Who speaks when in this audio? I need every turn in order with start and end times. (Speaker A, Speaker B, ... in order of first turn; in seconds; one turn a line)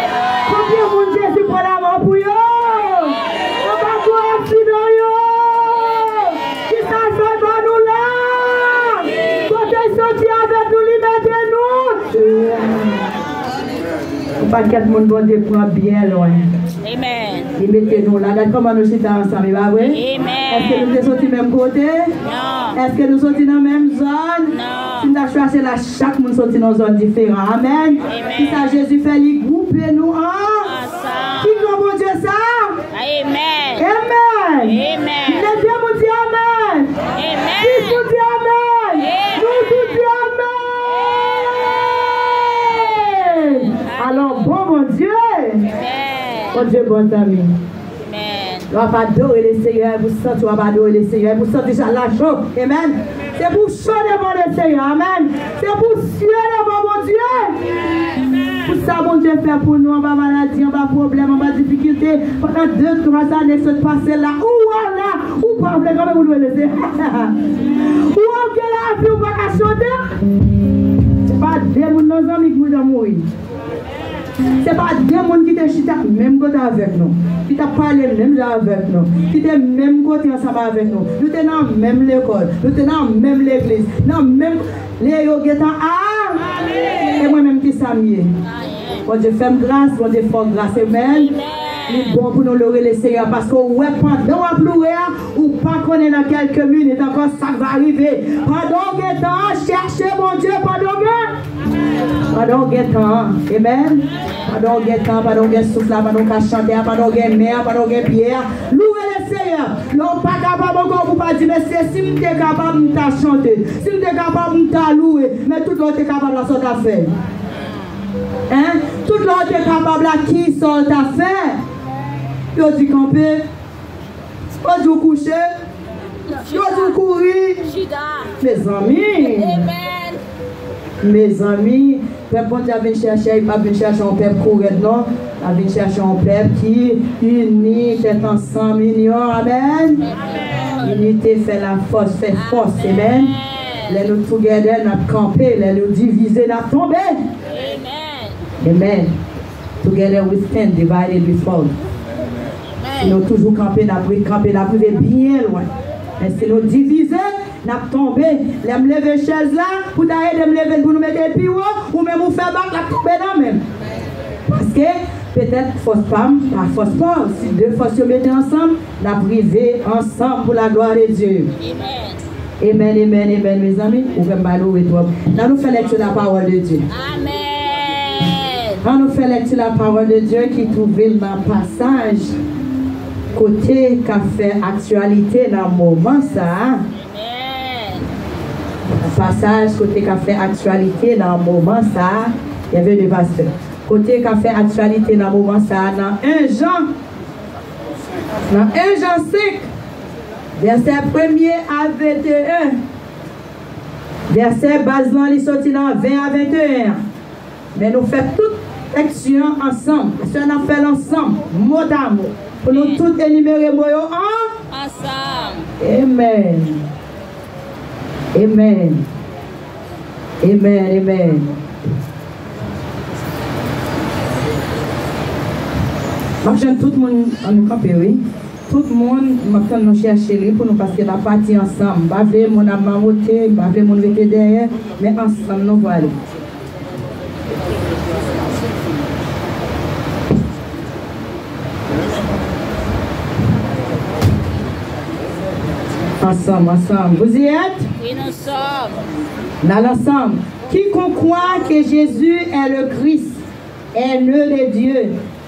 Speaker A: 0.4-13.1
Speaker A: 14.4-16.5
Speaker B: 16.8-17.5
Speaker A: 17.6-22.1
Speaker B: 19.9-21.0
Speaker B: 22.2-22.8
Speaker A: 22.7-30.8
Speaker B: 24.5-25.1
Speaker B: 28.1-28.6
Speaker B: 30.6-31.6
Speaker A: 31.4-32.8
Speaker B: 32.9-33.9
Speaker A: 33.8-36.9
Speaker B: 34.7-35.5
Speaker B: 37.1-38.1
Speaker A: 37.5-45.7
Speaker B: 39.0-40.0
Speaker B: 43.8-44.5
Speaker B: 45.7-46.6
Speaker A: 46.5-47.5
Speaker B: 48.0-48.7
Speaker A: 48.7-57.8
Speaker A: 58.6-70.1
Speaker A: 71.2-73.2
Speaker A: 74.6-86.5
Speaker A: 87.0-88.3
Speaker B: 88.6-89.0
Speaker A: 89.1-91.3
Speaker B: 91.1-92.2
Speaker A: 91.9-101.3
Speaker A: 102.3-117.1
Speaker A: 118.5-121.6
Speaker A: 122.5-123.4
Speaker A: 124.6-125.5
Speaker B: 126.3-127.0
Speaker A: 126.5-127.7
Speaker B: 127.7-128.4
Speaker A: 128.4-129.7
Speaker B: 129.2-130.2
Speaker A: 131.0-140.0
Speaker B: 140.2-140.9
Speaker A: 140.8-143.3
Speaker B: 142.3-143.9
Speaker A: 143.9-147.2
Speaker B: 147.5-148.4
Speaker A: 148.6-149.1
Speaker A: 149.8-151.7
Speaker B: 152.8-153.2
Speaker A: 153.0-155.7
Speaker A: 156.2-163.6
Speaker A: 164.5-171.5
Speaker B: 171.6-172.2
Speaker A: 172.6-176.8
Speaker B: 176.9-178.8
Speaker A: 178.8-182.3
Speaker A: 183.3-186.8
Speaker B: 186.9-188.1
Speaker A: 189.0-196.9
Speaker A: 198.5-199.7
Speaker A: 200.6-202.8
Speaker A: 204.3-207.0
Speaker A: 207.7-214.5
Speaker B: 212.7-213.1
Speaker B: 214.7-215.7
Speaker A: 215.8-216.8
Speaker A: 218.3-219.0
Speaker A: 220.4-221.6
Speaker A: 226.4-236.1
Speaker A: 246.2-247.9
Speaker B: 248.0-249.0
Speaker A: 249.6-253.4
Speaker A: 253.9-255.1